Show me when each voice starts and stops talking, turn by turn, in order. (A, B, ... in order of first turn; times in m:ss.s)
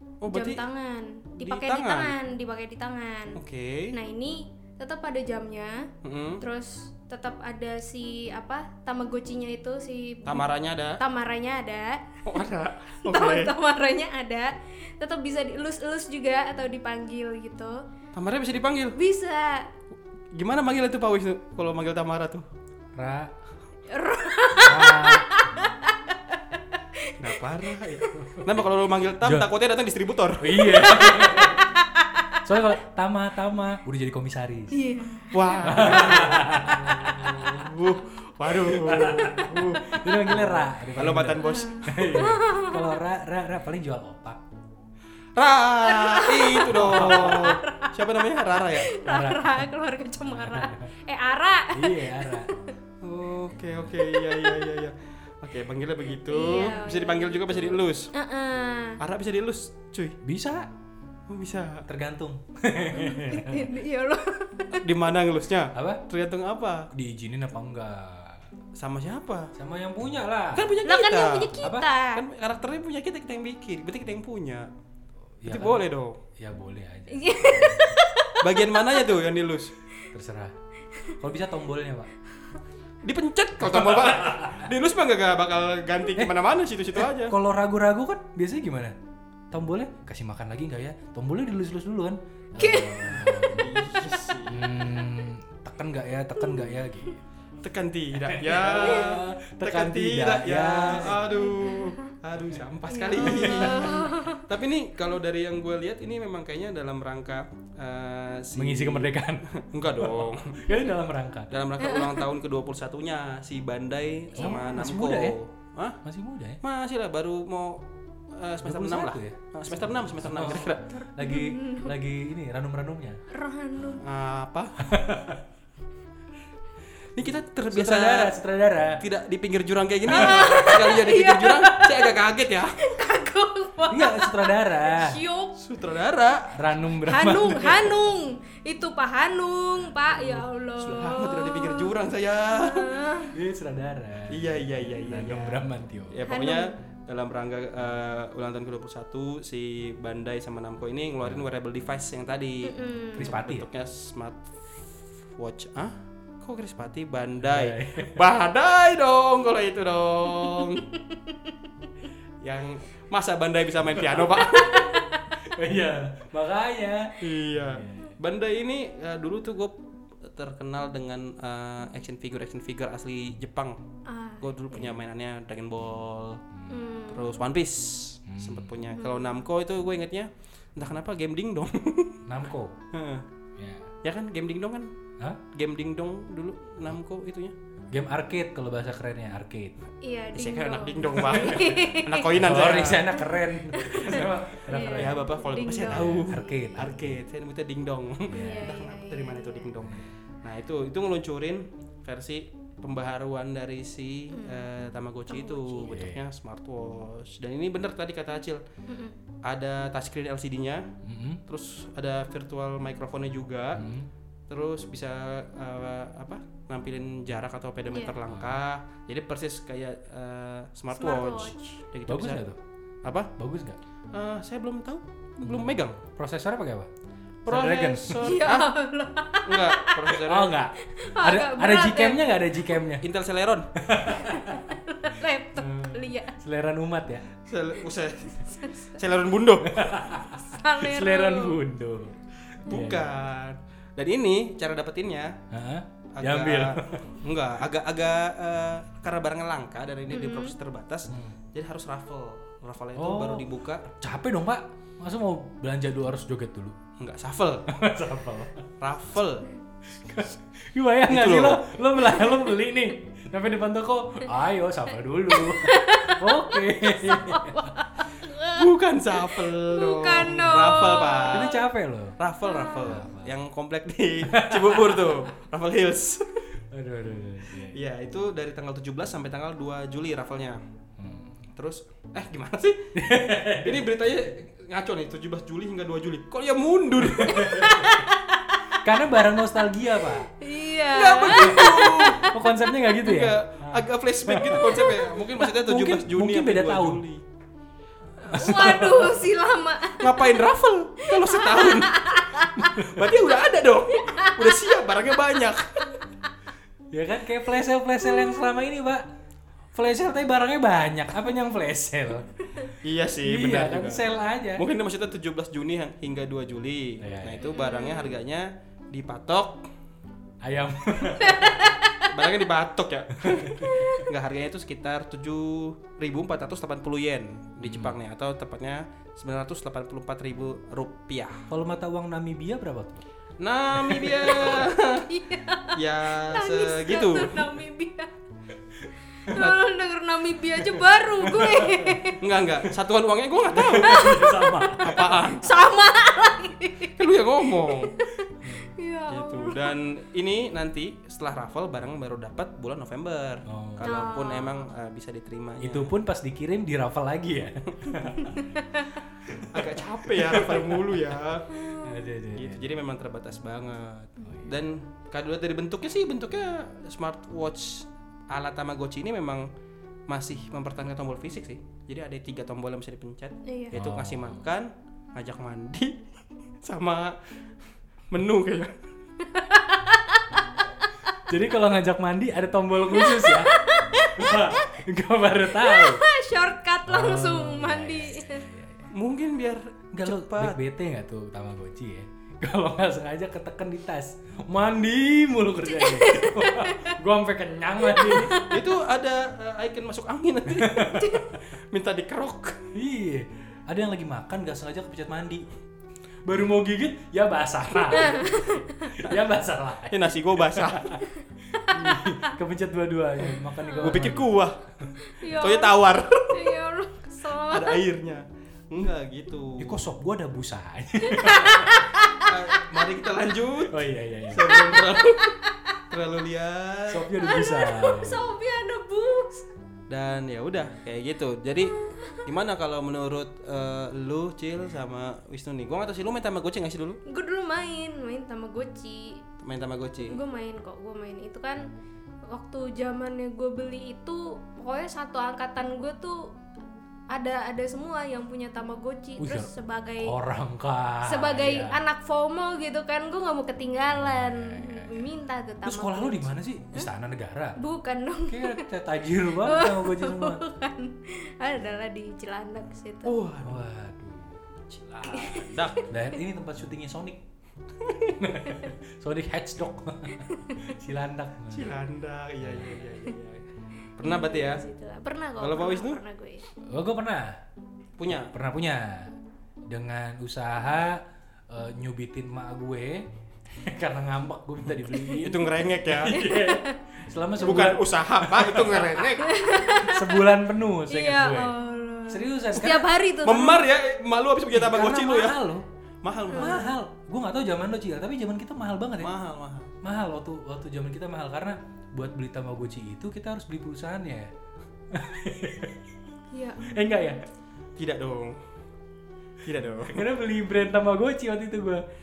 0:00.2-0:00.6 A
0:00.3-0:03.4 B
0:01.4-0:02.1 A
0:03.3-0:04.0 A
0:03.9-0:05.9 B
0:06.0-0:06.4 A
0:06.4-0:12.4 B
0:10.2-0:11.0 A
0:12.2-0:13.5 A
0:13.0-0:17.8 B
0:18.1-0:19.0 A
0:19.0-0:19.7 B
0:20.3-0:22.4 A
0:23.0-0:23.3 C
0:23.9-0:26.1 B
0:24.6-0:25.4 C
0:26.9-0:27.9 B
0:27.2-0:31.3 A
0:28.2-0:28.4 C
0:29.2-0:29.5 C
0:30.4-0:31.6 C
0:30.8-0:32.4 B
0:32.4-0:34.8 C
0:34.7-0:36.2 B
0:35.3-0:42.1 A
0:35.6-0:37.5 C
0:38.6-0:44.4 C
0:41.4-0:42.9 B
0:45.4-0:48.9 A
0:45.8-0:47.9 B
0:46.7-0:47.6 C
0:48.7-0:52.7 B
0:49.0-0:49.7 C
0:50.3-0:50.9 C
0:51.7-0:52.5 C
0:53.0-0:58.1 A
0:54.0-0:54.7 B
0:56.2-0:59.0 B
0:59.0-1:00.2 A
1:00.2-1:00.7 C
1:01.3-1:01.8 A
1:01.8-1:03.7 C
1:03.0-1:04.9 B
1:04.7-1:06.9 A
1:05.7-1:06.0 C
1:06.9-1:08.4 C
1:08.8-1:09.5 A
1:09.5-1:10.7 C
1:10.5-1:14.7 A
1:10.8-1:12.2 B
1:11.6-1:11.9 C
1:15.4-1:17.9 C
1:15.4-1:16.2 A
1:17.1-1:19.1 B
1:18.4-1:19.7 A
1:20.1-1:20.5 C
1:21.2-1:22.1 C
1:23.0-1:27.3 A
1:23.6-1:24.6 C
1:26.9-1:29.0 C
1:29.5-1:33.7 C
1:32.6-1:34.3 B
1:33.4-1:34.7 A
1:34.4-1:37.2 C
1:36.4-1:36.7 B
1:37.6-1:50.6 A
1:38.2-1:41.2 C
1:38.8-1:39.2 B
1:41.2-1:42.1 B
1:42.9-1:44.4 B
1:43.2-1:44.1 C
1:48.5-1:51.5 C
1:51.5-1:56.0 A
1:51.8-1:52.2 B
1:54.3-1:54.6 B
1:54.4-1:55.4 C
1:56.0-1:56.6 C
1:56.6-2:01.0 A
1:58.6-2:03.2 C
2:01.2-2:01.9 B
2:03.3-2:04.0 B
2:04.0-2:05.0 A
2:04.8-2:05.4 C
2:07.1-2:08.3 A
2:07.7-2:09.0 C
2:09.0-2:12.8 A
2:10.1-2:12.1 B
2:10.1-2:10.6 C
2:12.8-2:15.5 B
2:13.9-2:15.2 C
2:15.6-2:16.6 A
2:16.5-2:18.0 C
2:17.0-2:21.9 B
2:20.2-2:20.4 C
2:20.8-2:23.0 A
2:22.5-2:23.4 B
2:23.3-2:26.2 C
2:24.3-2:34.8 A
2:26.3-2:26.7 B
2:32.6-2:33.3 B
2:33.1-2:33.6 C
2:35.3-2:40.9 A
2:37.4-2:38.2 C
2:40.8-2:41.5 B
2:42.4-2:44.9 A
2:44.0-2:44.8 C
2:44.6-2:45.2 B
2:45.4-2:48.1 C
2:47.2-2:53.8 A
2:54.1-2:54.9 B
2:54.4-2:56.4 A
2:56.5-2:56.8 C
2:56.7-2:57.4 B
2:57.1-3:02.2 A
2:58.3-2:58.8 C
2:59.0-2:59.4 B
3:02.2-3:02.7 C
3:02.9-3:03.2 A
3:03.6-3:03.9 C
3:04.0-3:04.9 A
3:05.5-3:07.5 A
3:07.9-3:09.7 C
3:10.0-3:12.3 B
3:10.3-3:13.2 A
3:11.2-3:11.8 C
3:12.3-3:15.2 C
3:13.2-3:16.5 B
3:14.1-3:28.6 A
3:15.9-3:17.2 C
3:18.3-3:18.7 C
3:18.3-3:19.7 B
3:24.3-3:24.7 B
3:25.3-3:26.0 B
3:25.8-3:26.2 C
3:28.9-3:29.2 B
3:29.4-3:30.9 A
3:31.0-3:31.4 C
3:31.4-3:33.9 A
3:33.7-3:34.1 C
3:34.5-3:42.5 A
3:38.3-3:38.6 C
3:41.0-3:41.8 B
3:42.1-3:42.6 C
3:43.0-3:43.3 A
3:43.4-3:43.8 C
3:44.1-3:46.0 A
3:45.4-3:46.9 C
3:47.4-3:48.7 A
3:47.5-3:48.2 C
3:48.2-3:50.2 B
3:49.4-3:50.6 A
3:50.2-3:53.0 C
3:50.9-3:52.4 B
3:53.0-3:53.7 A
3:53.8-3:54.8 C
3:54.2-3:56.4 B
3:55.6-3:57.3 C
3:57.4-3:59.8 A
3:59.6-4:03.1 C
4:00.5-4:01.6 B
4:02.7-4:05.4 A
4:05.5-4:07.0 C
4:06.2-4:13.9 A
4:10.1-4:10.5 B
4:11.1-4:11.4 C
4:13.0-4:16.8 C
4:17.0-4:17.7 A
4:17.7-4:18.6 C
4:18.8-4:19.5 A
4:19.9-4:27.7 C
4:21.1-4:21.6 A
4:25.3-4:31.6 B
4:28.5-4:31.6 A
4:31.3-4:32.2 C
4:32.2-4:36.4 A
4:32.4-4:33.0 B
4:32.8-4:33.4 C
4:34.2-4:35.3 C
4:36.7-4:37.8 C
4:37.7-4:40.6 A
4:41.0-4:41.3 C
4:41.5-4:42.9 A
4:42.9-4:43.9 C
4:43.6-4:47.7 A
4:47.0-4:47.9 C
4:47.3-4:48.6 B
4:48.8-4:50.3 C
4:50.4-4:52.4 B
4:50.9-4:52.3 A
4:51.4-4:57.0 C
4:53.0-4:57.2 A
4:58.2-4:59.2 C
4:58.2-5:00.2 B
5:00.0-5:06.0 A
5:01.0-5:02.7 B
5:02.6-5:03.1 C
5:04.0-5:04.7 B
5:06.9-5:09.0 C
5:08.1-5:08.4 B
5:09.7-5:12.6 C
5:12.8-5:19.7 A
5:13.2-5:14.6 C
5:17.0-5:17.5 C
5:17.4-5:18.2 B
5:20.4-5:21.7 C
5:21.2-5:21.9 B
5:22.0-5:31.5 A
5:23.2-5:24.0 C
5:27.6-5:27.9 C
5:31.5-5:33.0 C
5:33.4-5:35.1 A
5:33.8-5:34.4 C
5:34.3-5:38.1 B
5:35.7-5:37.4 A
5:39.2-5:42.2 B
5:40.6-5:42.1 C
5:42.2-5:44.2 A
5:43.5-5:45.2 C
5:43.8-5:49.7 B
5:44.8-5:45.5 A
5:47.0-5:48.0 A
5:48.4-5:48.7 C
5:49.1-5:55.9 A
5:53.5-5:54.0 C
5:53.8-5:54.7 B
5:55.6-5:58.4 C
5:58.6-5:58.8 B
5:59.3-6:01.0 C
5:59.4-6:01.5 A
6:01.5-6:02.0 B
6:01.8-6:02.7 C
6:02.3-6:09.5 A
6:04.2-6:04.6 C
6:10.1-6:16.0 A
6:13.4-6:13.8 B
6:13.7-6:14.4 C
6:16.6-6:17.2 A
6:18.1-6:18.8 A
6:19.3-6:20.2 B
6:21.3-6:23.6 C
6:22.9-6:24.8 B
6:24.1-6:26.0 C
6:25.5-6:28.5 B
6:26.9-6:28.9 C
6:28.9-6:30.6 A
6:29.9-6:38.4 C
6:35.7-6:37.0 B
6:37.8-6:38.6 B
6:38.3-6:42.6 A
6:40.5-6:41.2 C
6:40.9-6:41.2 B
6:42.7-6:45.5 C
6:46.2-6:51.0 C
6:47.9-6:49.0 B
6:49.9-6:51.0 A
6:51.6-6:52.3 B
6:51.7-6:54.3 C
6:53.7-6:53.9 B
6:53.8-6:54.6 A
6:55.0-6:57.8 B
6:55.3-6:56.5 A
6:57.4-6:59.8 A
6:59.6-7:01.9 C
7:01.0-7:02.0 B
7:02.2-7:05.4 A
7:03.7-7:04.6 C
7:04.5-7:05.7 B
7:05.9-7:07.1 A
7:06.9-7:08.2 C
7:07.2-7:09.5 B
7:09.9-7:17.0 A
7:11.8-7:12.2 B
7:17.1-7:19.2 B
7:19.4-7:20.2 A
7:20.1-7:21.7 B
7:22.3-7:26.3 B
7:27.1-7:30.2 B
7:29.2-7:31.8 C
7:31.0-7:36.9 B
7:33.9-7:35.1 C
7:35.6-7:37.6 C
7:37.6-7:38.6 B
7:38.3-7:40.4 C
7:39.4-7:43.2 B
7:43.0-7:43.7 A
7:43.4-7:44.4 C
7:44.7-7:45.8 A
7:45.0-7:45.8 B
7:45.9-7:47.2 C
7:48.0-7:51.7 C
7:50.2-7:50.7 B
7:51.5-7:54.6 A
7:52.4-7:52.8 C
7:54.0-7:56.5 B
7:55.4-7:56.0 A
7:56.6-7:57.4 C
7:58.0-7:58.3 A
7:58.2-7:59.1 C
7:59.7-8:09.2 C
8:05.2-8:06.3 A
8:06.1-8:06.8 B
8:07.4-8:09.3 A
8:09.2-8:10.3 B
8:09.8-8:11.6 C
8:10.9-8:13.7 B
8:12.1-8:12.9 C
8:13.2-8:15.4 A
8:14.5-8:15.6 C
8:16.0-8:16.7 A
8:16.3-8:16.7 B
8:16.3-8:19.1 C
8:19.0-8:19.7 A
8:19.8-8:24.3 C
8:24.9-8:25.8 C
8:26.3-8:26.7 B
8:26.6-8:27.2 C
8:27.8-8:28.4 A
8:29.4-8:30.0 A
8:29.9-8:31.8 C